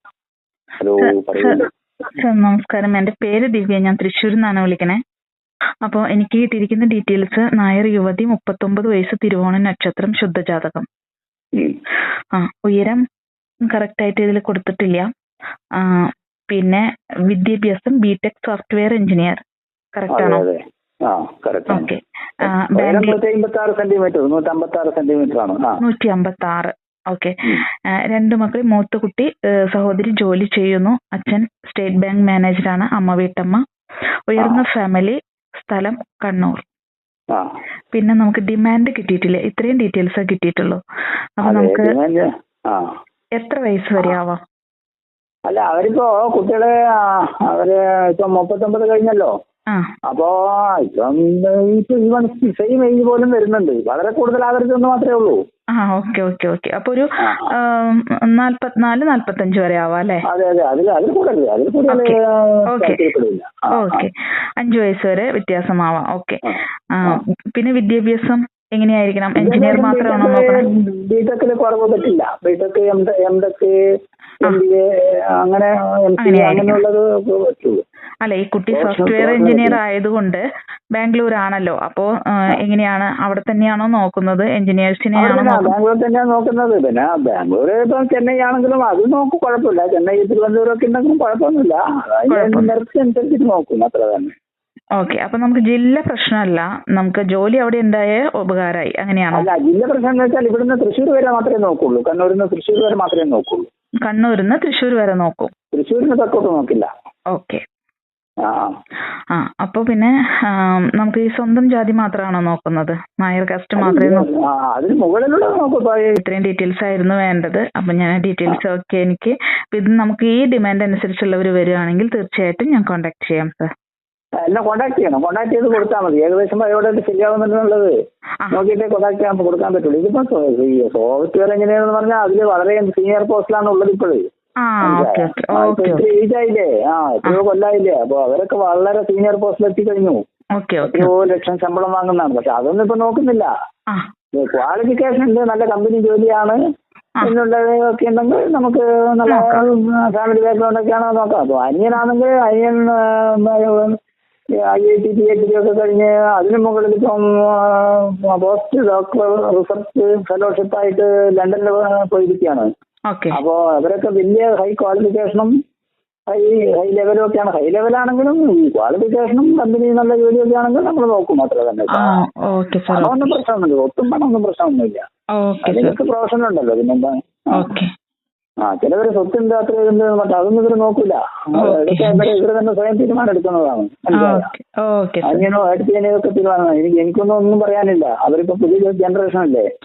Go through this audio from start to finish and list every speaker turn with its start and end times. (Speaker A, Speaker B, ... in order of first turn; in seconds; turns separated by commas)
Speaker A: 0.8-1.7, Speaker B: 1.0-1.6, Speaker B: 2.2-5.0, Speaker B: 5.8-10.8, Speaker B: 12.3-13.0, Speaker B: 13.7-15.1, Speaker B: 15.8-19.4, Speaker B: 19.9-20.4, Speaker A: 20.1-21.9, Speaker B: 21.7-23.2, Speaker A: 22.4-25.8, Speaker B: 25.8-27.4, Speaker B: 28.1-33.6, Speaker B: 34.3-36.6, Speaker B: 37.9-40.8, Speaker B: 41.4-41.9, Speaker A: 41.4-42.9, Speaker B: 43.4-44.4, Speaker A: 45.5-49.3, Speaker A: 50.1-55.4, Speaker B: 55.7-60.2, Speaker A: 57.2-57.5, Speaker A: 60.2-64.1, Speaker B: 61.9-62.1, Speaker B: 62.7-63.0, Speaker B: 63.7-66.4, Speaker A: 66.5-67.2, Speaker B: 66.9-70.6, Speaker A: 69.4-73.7, Speaker A: 74.4-74.8, Speaker A: 75.4-77.8, Speaker B: 76.2-76.8, Speaker B: 78.2-80.4, Speaker A: 78.7-79.8, Speaker B: 80.9-85.7, Speaker A: 85.2-94.3, Speaker B: 92.3-92.7, Speaker B: 95.0-99.5, Speaker A: 99.3-103.7, Speaker B: 104.0-105.5, Speaker A: 105.7-106.9, Speaker B: 107.3-107.6, Speaker A: 108.4-108.7, Speaker B: 109.3-114.2, Speaker A: 113.8-116.2, Speaker B: 116.2-123.7, Speaker A: 124.4-127.9, Speaker A: 128.5-134.2, Speaker B: 134.6-136.0, Speaker A: 134.8-140.2, Speaker B: 140.6-141.1, Speaker A: 140.8-143.5, Speaker A: 144.3-146.6, Speaker A: 147.2-153.9, Speaker B: 149.3-149.6, Speaker A: 154.6-162.7, Speaker B: 163.1-163.4, Speaker A: 163.3-165.5, Speaker A: 166.3-172.2, Speaker B: 171.9-173.2, Speaker A: 172.9-175.0, Speaker B: 175.4-176.0, Speaker A: 175.6-177.6, Speaker B: 177.5-177.9, Speaker A: 178.6-184.5, Speaker B: 181.6-182.3, Speaker B: 184.2-185.4, Speaker A: 185.2-189.6